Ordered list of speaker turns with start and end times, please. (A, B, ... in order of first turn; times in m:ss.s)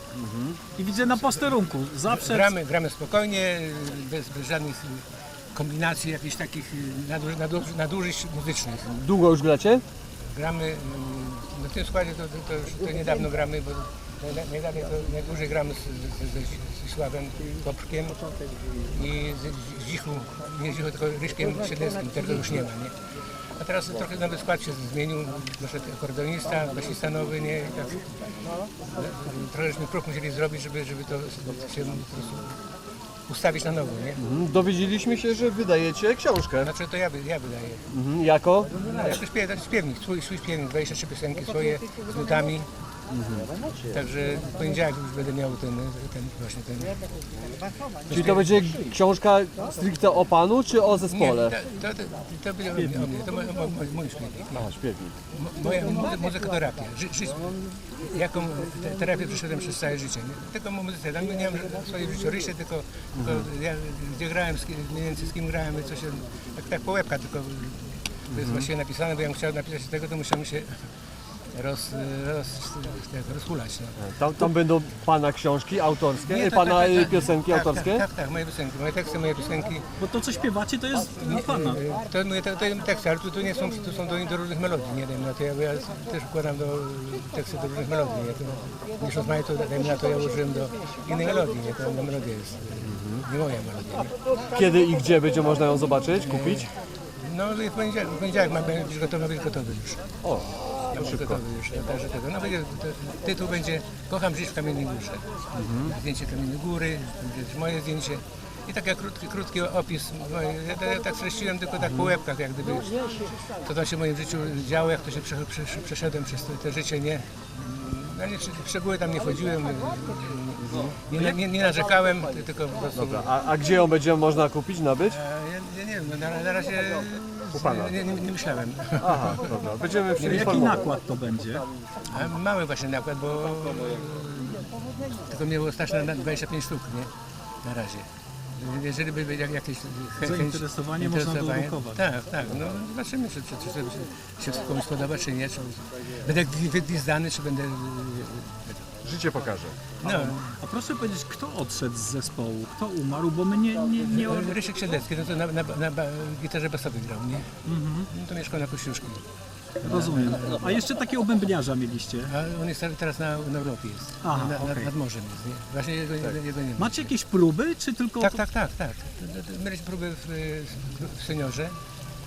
0:00.1-0:00.6 A
0:00.8-0:02.5 B
0:02.1-0:09.1 C
0:09.0-0:09.8 A
0:10.3-0:23.0 C
0:23.6-0:28.1 C
0:28.9-0:32.6 C
0:33.3-0:34.2 C
0:34.2-0:36.7 A
0:36.6-0:37.8 C
0:37.9-0:39.1 A
0:38.8-0:42.7 C
0:43.1-0:43.5 A
0:43.9-0:47.0 C
0:48.1-0:51.5 A
0:48.1-0:48.5 C
0:51.1-0:54.7 C
0:54.5-0:55.1 A
0:55.3-0:57.5 C
0:58.0-1:10.7 C
1:03.2-1:03.5 A
1:08.3-1:08.7 A
1:11.5-1:14.0 C
1:14.0-1:18.0 A
1:16.3-1:19.8 C
1:20.0-1:21.8 B
1:21.2-1:34.1 C
1:32.9-1:33.2 A
1:34.4-1:36.6 A
1:36.2-1:40.0 C
1:40.2-1:41.4 A
1:40.9-1:45.3 C
1:45.5-1:45.9 A
1:45.8-2:03.3 C
2:03.0-2:05.2 A
2:05.1-2:09.5 C
2:07.5-2:07.9 A
2:09.0-2:10.8 A
2:10.2-2:11.6 B
2:12.1-2:17.1 C
2:17.6-2:28.9 C
2:20.2-2:22.0 B
2:29.0-2:29.8 A
2:30.0-2:30.4 C
2:30.1-2:34.6 B
2:34.1-2:37.5 C
2:37.6-2:38.1 B
2:38.1-2:39.2 C
2:39.8-2:40.6 C
2:39.8-2:42.3 B
2:42.2-2:47.1 C
2:44.2-2:44.9 B
2:46.8-2:48.4 B
2:48.2-2:51.8 C